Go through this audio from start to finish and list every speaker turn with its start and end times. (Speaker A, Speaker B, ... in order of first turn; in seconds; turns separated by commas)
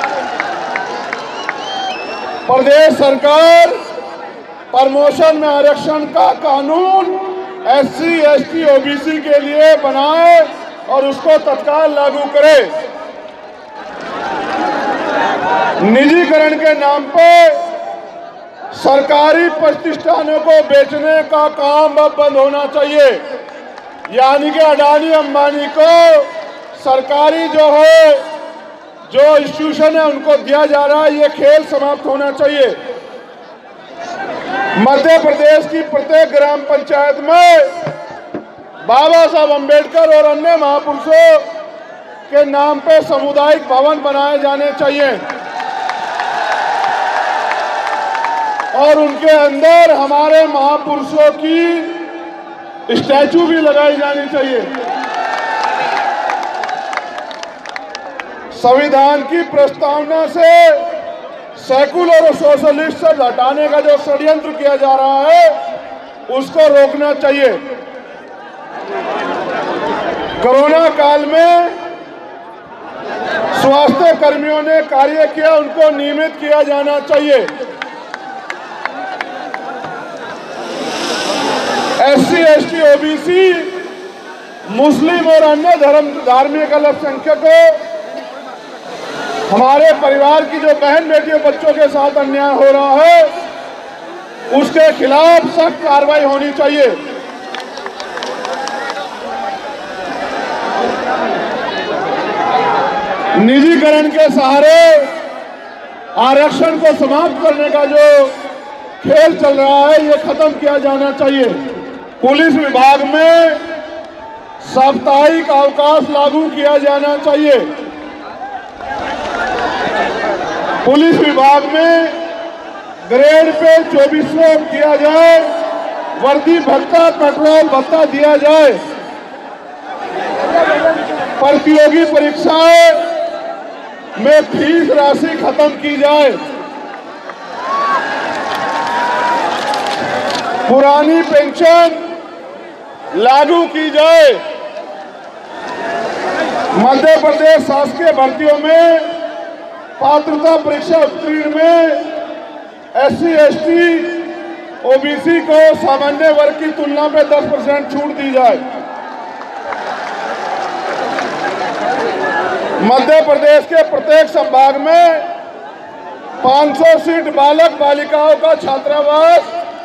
Speaker A: 2.5-3.8, Speaker A: 4.7-12.7, Speaker A: 15.8-17.6, Speaker A: 18.7-23.2, Speaker A: 24.1-28.2, Speaker A: 29.1-32.8, Speaker A: 34.8-37.7, Speaker A: 38.8-41.5, Speaker A: 42.3-45.2, Speaker A: 48.7-52.1, Speaker A: 52.9-54.7, Speaker A: 58.5-60.9, Speaker A: 61.6-65.5, Speaker A: 66.3-67.6, Speaker A: 70.4-71.8, Speaker A: 73.5-77.5, Speaker A: 82.0-83.8, Speaker A: 84.7-87.8, Speaker A: 89.5-93.3, Speaker A: 94.5-97.0, Speaker A: 103.4-105.1, Speaker A: 106.2-108.3, Speaker A: 109.0-111.6, Speaker A: 112.2-113.6, Speaker A: 114.6-117.7, Speaker A: 120.8-122.2, Speaker A: 123.1-125.5, Speaker A: 126.2-128.8, Speaker A: 131.4-133.1, Speaker A: 134.2-136.4, Speaker A: 140.7-142.1, Speaker A: 143.1-144.4, Speaker A: 146.7-149.2, Speaker A: 150.0-152.2, Speaker A: 152.9-158.6, Speaker A: 162.8-165.3, Speaker A: 166.4-169.5